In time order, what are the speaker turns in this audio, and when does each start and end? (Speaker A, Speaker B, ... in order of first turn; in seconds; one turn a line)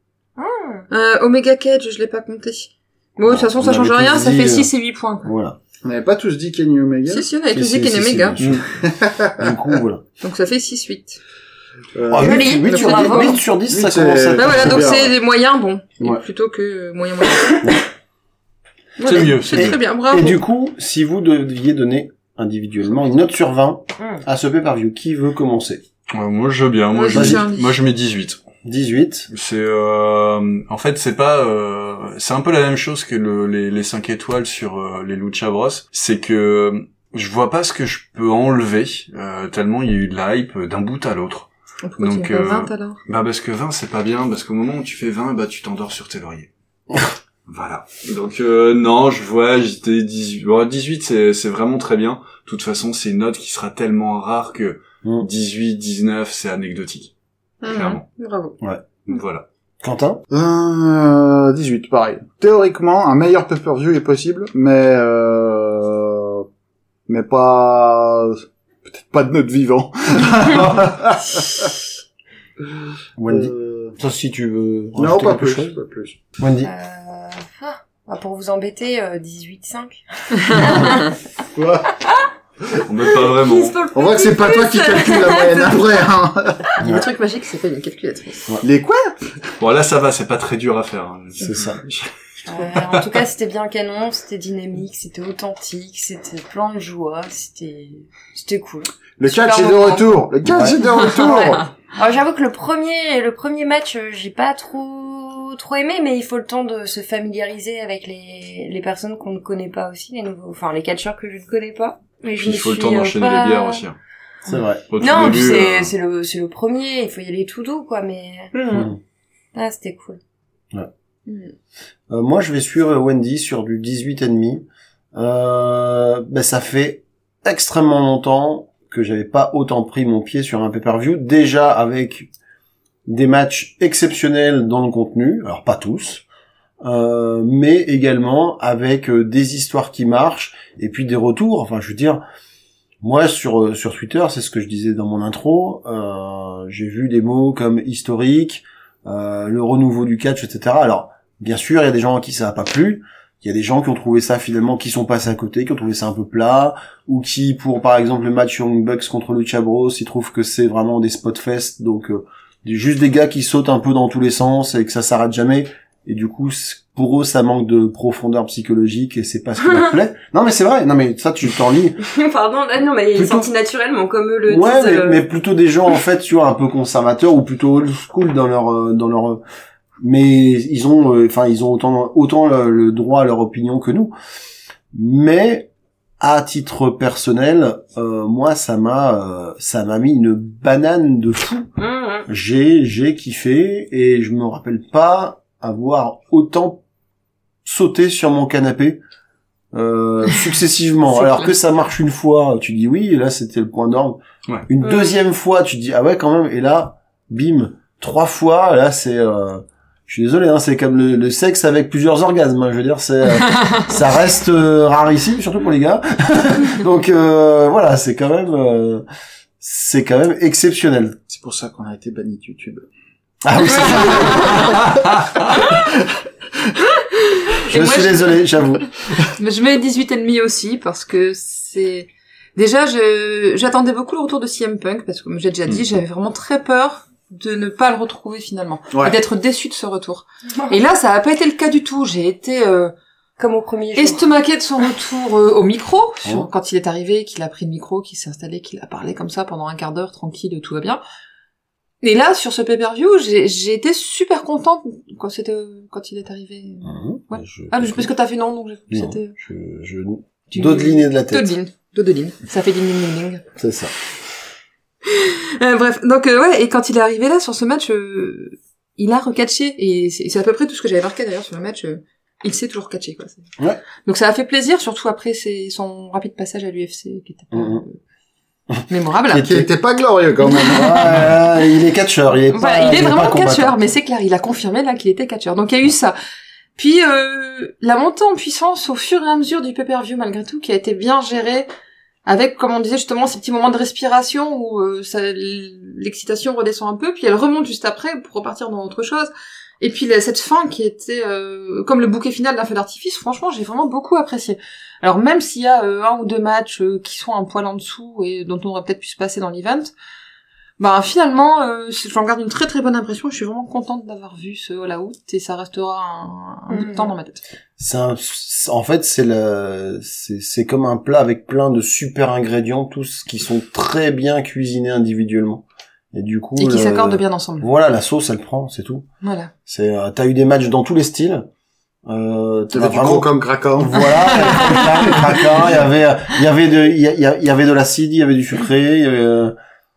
Speaker A: 0.4-0.9
Speaker B: 0.9-5.3
Speaker C: 3.2-4.7
Speaker C: 5.2-5.6
Speaker D: 5.8-7.3
Speaker B: 7.1-8.4
Speaker C: 7.5-8.6
Speaker D: 8.8-9.5
Speaker C: 9.4-10.0
Speaker B: 10.2-11.2
Speaker D: 11.9-12.7
Speaker C: 12.1-15.1
Speaker A: 12.2-13.4
Speaker B: 12.6-13.4
Speaker D: 13.7-15.1
Speaker B: 14.3-17.8
Speaker B: 19.0-20.4
Speaker E: 19.0-19.8
Speaker C: 19.5-25.8
Speaker E: 26.1-28.4
Speaker B: 26.9-27.7
Speaker C: 27.1-27.4
Speaker C: 28.6-29.3
Speaker E: 29.3-46.5
Speaker B: 41.8-43.0
Speaker E: 47.5-57.1
Speaker B: 57.6-58.5
Speaker E: 57.6-58.0
Speaker E: 59.0-59.5
Speaker C: 59.8-60.2
Speaker D: 60.3-66.5
Speaker D: 67.1-71.7
Speaker C: 73.2-75.8
Speaker D: 73.3-74.0
Speaker D: 75.0-76.2
Speaker C: 76.4-76.7
Speaker A: 76.6-81.1
Speaker D: 81.5-81.9
Speaker E: 82.8-83.8
Speaker A: 83.2-86.0
Speaker D: 83.9-86.7
Speaker C: 86.8-87.1
Speaker B: 86.8-88.5
Speaker D: 88.6-89.3
Speaker E: 89.6-92.1
Speaker C: 91.4-91.8
Speaker A: 92.4-100.2
Speaker E: 92.7-93.1
Speaker D: 99.2-101.6
Speaker C: 100.4-100.8
Speaker A: 101.0-113.8
Speaker E: 112.4-114.0
Speaker C: 114.5-114.9
Speaker E: 114.9-115.9
Speaker A: 115.0-118.9
Speaker A: 119.5-120.2
Speaker B: 121.3-121.5
Speaker C: 122.1-132.3
Speaker C: 133.1-136.2
Speaker C: 136.8-142.2
Speaker C: 143.0-172.0
Speaker A: 172.0-175.2
Speaker C: 173.1-173.5
Speaker C: 174.5-179.4
Speaker C: 180.0-184.1
Speaker C: 184.9-185.7
Speaker C: 186.2-191.7
Speaker A: 191.8-192.3
Speaker C: 192.3-196.8
Speaker C: 197.6-199.0
Speaker C: 199.7-219.1
Speaker B: 201.2-201.5
Speaker A: 204.8-205.1
Speaker C: 219.6-221.2
Speaker D: 221.3-222.9
Speaker C: 223.4-224.9
Speaker B: 227.5-228.4
Speaker C: 227.7-228.9
Speaker B: 229.3-242.9
Speaker D: 238.9-239.2
Speaker A: 243.4-244.3
Speaker B: 243.9-251.0
Speaker B: 252.0-259.3
Speaker C: 256.8-258.1
Speaker C: 258.9-261.5
Speaker B: 260.5-263.4
Speaker C: 263.6-263.9
Speaker B: 265.1-273.4
Speaker B: 274.1-278.0
Speaker C: 277.5-277.8
Speaker C: 278.7-279.7
Speaker B: 278.9-279.5
Speaker D: 279.3-281.4
Speaker C: 280.6-283.8
Speaker B: 282.5-286.1
Speaker B: 286.8-291.7
Speaker B: 292.3-309.9
Speaker B: 310.8-317.4
Speaker A: 316.7-317.1
Speaker C: 317.8-329.1
Speaker B: 326.6-327.7
Speaker B: 329.2-329.5
Speaker C: 329.6-331.4
Speaker C: 332.1-339.5
Speaker D: 332.7-335.2
Speaker B: 334.5-334.8